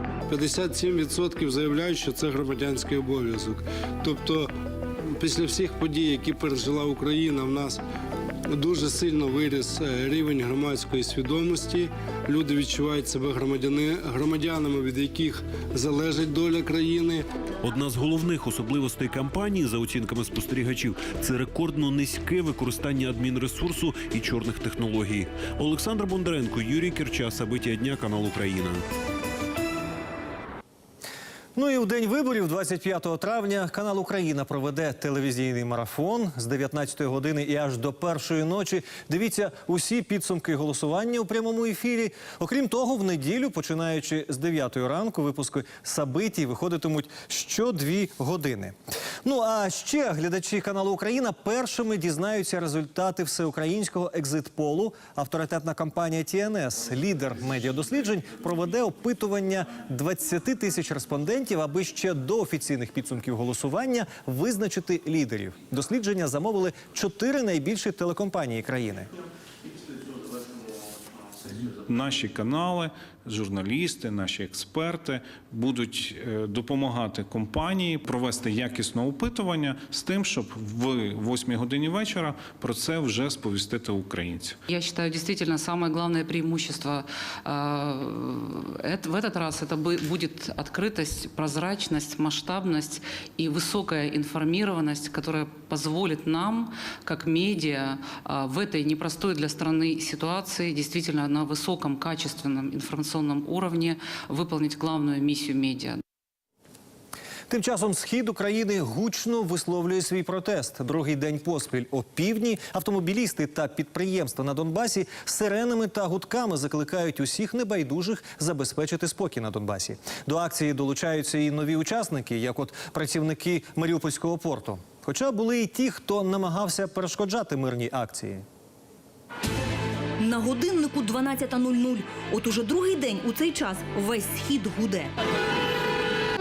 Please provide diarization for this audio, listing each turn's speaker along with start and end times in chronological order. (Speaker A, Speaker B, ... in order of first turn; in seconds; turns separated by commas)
Speaker A: 0.3-4.5, Speaker A: 5.0-7.8, Speaker A: 8.5-17.2, Speaker B: 17.6-28.8, Speaker C: 31.6-69.1, Speaker D: 71.8-84.6, Speaker E: 84.7-106.0, Speaker C: 107.5-128.4, Speaker F: 130.2-135.1